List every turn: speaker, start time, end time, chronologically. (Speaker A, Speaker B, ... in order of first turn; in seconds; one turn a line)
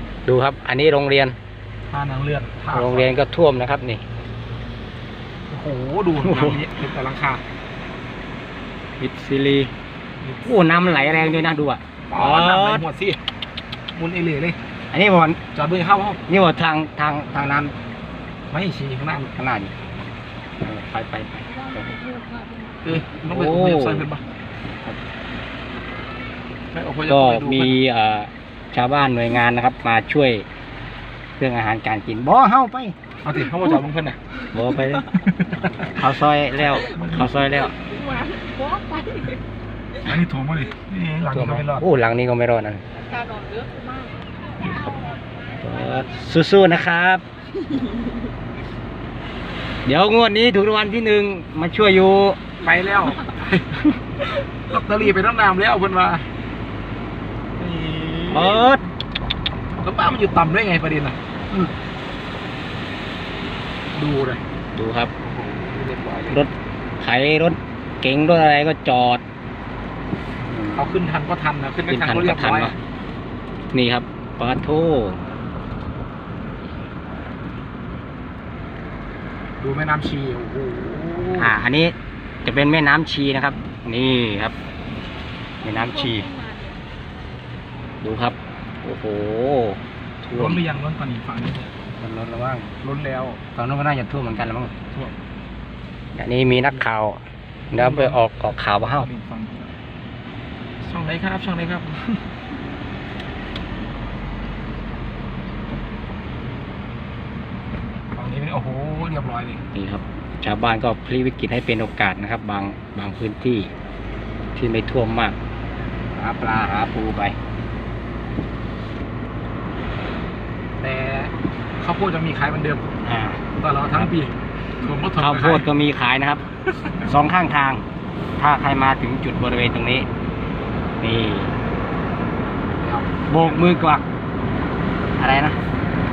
Speaker A: 0.2-1.4
Speaker B: 1.9-3.2
Speaker A: 2.7-4.0
Speaker B: 5.5-7.4
Speaker A: 6.2-6.6
Speaker A: 9.0-9.7
Speaker B: 10.2-11.6
Speaker A: 10.4-12.8
Speaker B: 12.1-13.2
Speaker B: 13.9-14.6
Speaker A: 14.9-15.4
Speaker B: 15.5-16.2
Speaker A: 16.3-17.7
Speaker B: 18.5-19.3
Speaker A: 19.3-19.7
Speaker A: 20.6-21.8
Speaker C: 21.5-23.1
Speaker B: 22.8-24.2
Speaker A: 23.2-24.1
Speaker B: 26.7-27.8
Speaker A: 27.1-30.4
Speaker A: 31.4-33.0
Speaker B: 33.2-34.2
Speaker A: 34.5-35.1
Speaker B: 35.1-36.0
Speaker A: 36.0-37.7
Speaker B: 36.5-37.4
Speaker C: 37.8-39.4
Speaker B: 40.0-41.9
Speaker A: 41.3-42.8
Speaker C: 42.9-44.2
Speaker A: 45.6-47.2
Speaker A: 49.9-52.4
Speaker B: 52.6-56.3
Speaker B: 57.6-58.7
Speaker A: 58.3-58.9
Speaker B: 59.8-61.2
Speaker B: 64.0-64.4
Speaker A: 64.7-65.1
Speaker B: 65.2-66.4
Speaker A: 66.3-69.2
Speaker A: 70.5-70.9
Speaker B: 70.7-72.8
Speaker A: 71.9-72.8
Speaker A: 73.7-75.2
Speaker B: 79.6-81.5
Speaker A: 81.4-84.5
Speaker A: 85.6-86.2
Speaker C: 85.6-86.8
Speaker A: 88.0-90.6
Speaker B: 90.3-91.7
Speaker A: 92.0-92.7
Speaker B: 92.8-93.4
Speaker A: 93.5-94.7
Speaker A: 96.2-97.2
Speaker A: 97.7-99.1
Speaker B: 97.7-98.2
Speaker B: 98.9-99.7
Speaker B: 100.8-102.3
Speaker B: 108.1-109.6
Speaker A: 109.7-113.7
Speaker A: 114.5-115.4
Speaker A: 116.2-117.3
Speaker B: 120.8-122.9
Speaker A: 123.0-123.4
Speaker B: 123.6-125.7
Speaker A: 125.2-126.4
Speaker A: 127.0-127.8
Speaker A: 128.4-130.1
Speaker A: 131.0-131.5
Speaker B: 132.8-133.8
Speaker A: 133.3-134.0
Speaker A: 135.2-135.6